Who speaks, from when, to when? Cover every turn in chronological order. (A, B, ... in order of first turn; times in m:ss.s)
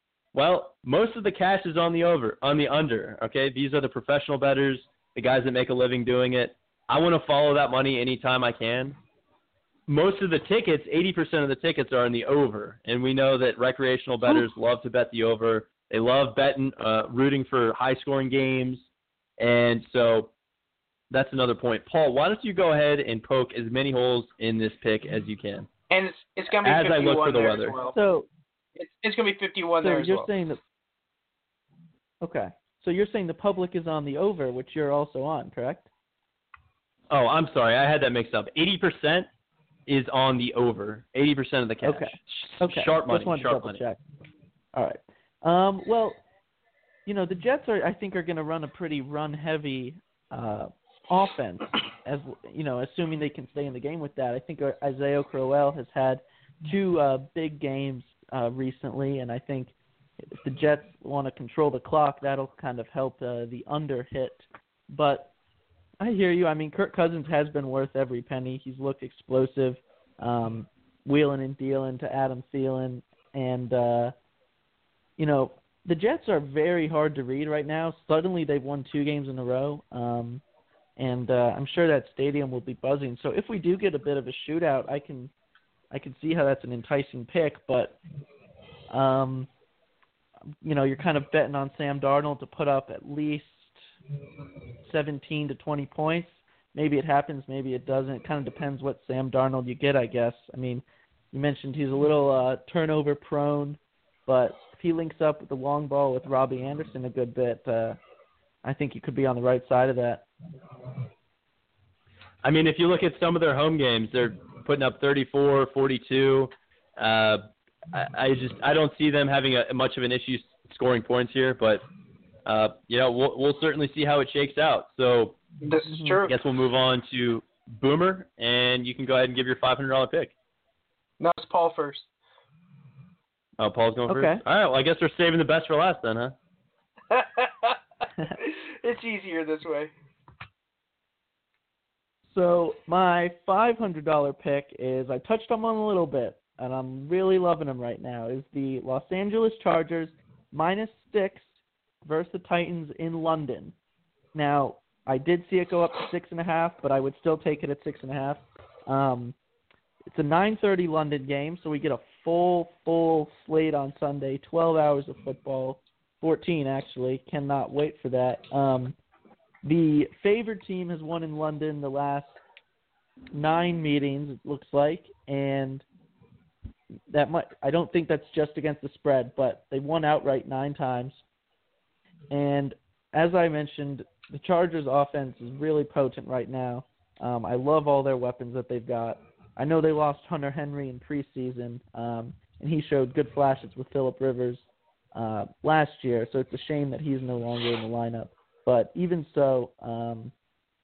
0:00.3-0:09.0 A
0:09.9-0:20.3 A
0:21.1-0:25.7 A
0:25.9-0:27.9 B
0:26.6-0:27.7 A
0:27.9-0:28.3 C
0:28.8-0:30.3 B
0:29.8-0:30.6 C
0:32.2-0:35.9 C
0:37.1-0:39.3 A
0:39.9-0:43.8 A
0:41.8-0:44.0 C
0:44.7-0:46.2 C
0:47.0-0:59.7 C
1:00.3-1:05.3 C
1:06.0-1:14.1 C
1:15.2-1:20.4 C
1:21.0-1:25.3 C
1:25.9-1:28.0 C
1:28.9-1:29.5 C
1:30.6-1:33.8 C
1:34.8-1:48.0 C
1:48.6-1:50.2 C
1:52.4-2:01.8 A
2:02.4-2:05.4 A
2:05.6-2:06.3 B
2:05.9-2:06.2 C
2:06.2-2:10.3 A
2:11.2-2:12.1 B
2:13.6-2:16.4 A
2:14.1-2:14.4 C
2:17.1-2:17.8 B
2:18.4-2:19.9 B
2:22.3-2:31.5 C
2:32.0-2:33.7 C
2:34.3-2:39.4 C
2:40.1-2:49.0 C
2:49.6-2:52.4 C
2:53.3-2:55.8 C
2:57.1-3:01.2 C
3:02.3-3:20.3 C